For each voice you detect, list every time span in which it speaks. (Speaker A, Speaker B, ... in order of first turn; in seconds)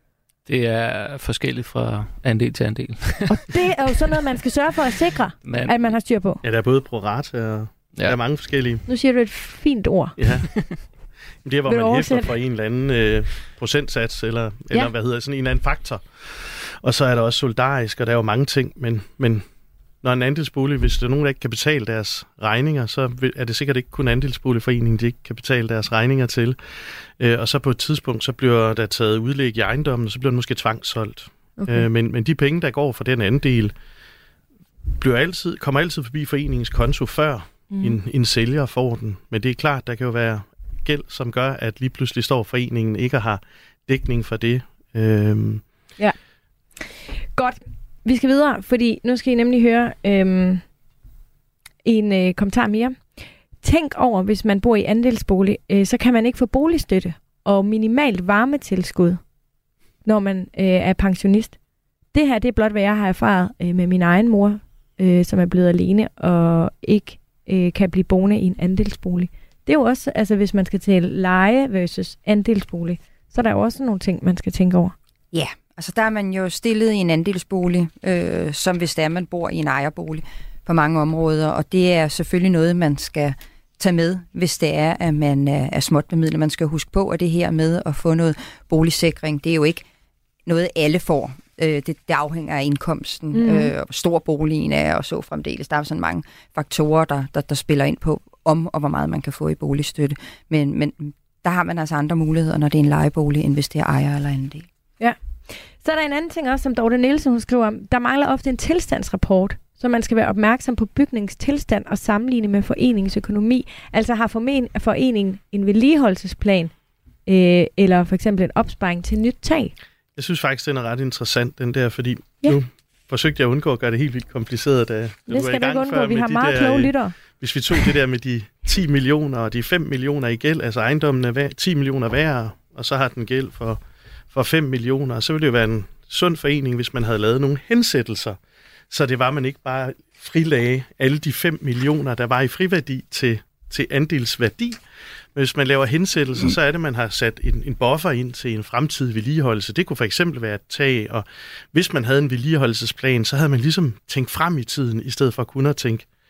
Speaker A: 0.5-3.6, 5.4-5.9
Speaker B: 3.3-6.4, 8.9-10.2, 11.7-12.3, 31.6-31.9, 37.7-38.0, 47.4-50.6, 51.8-59.2, 60.0-61.6, 62.1-75.0, 93.3-93.7, 105.7-116.7, 117.3-119.7, 125.3-127.1
Speaker C: 6.4-8.8, 10.2-10.5, 11.4-19.4, 20.0-26.6, 27.2-33.7, 35.0-45.6, 120.2-133.8, 134.3-138.4, 138.9-144.8, 145.3-156.1
Speaker D: 75.3-89.9, 90.5-104.7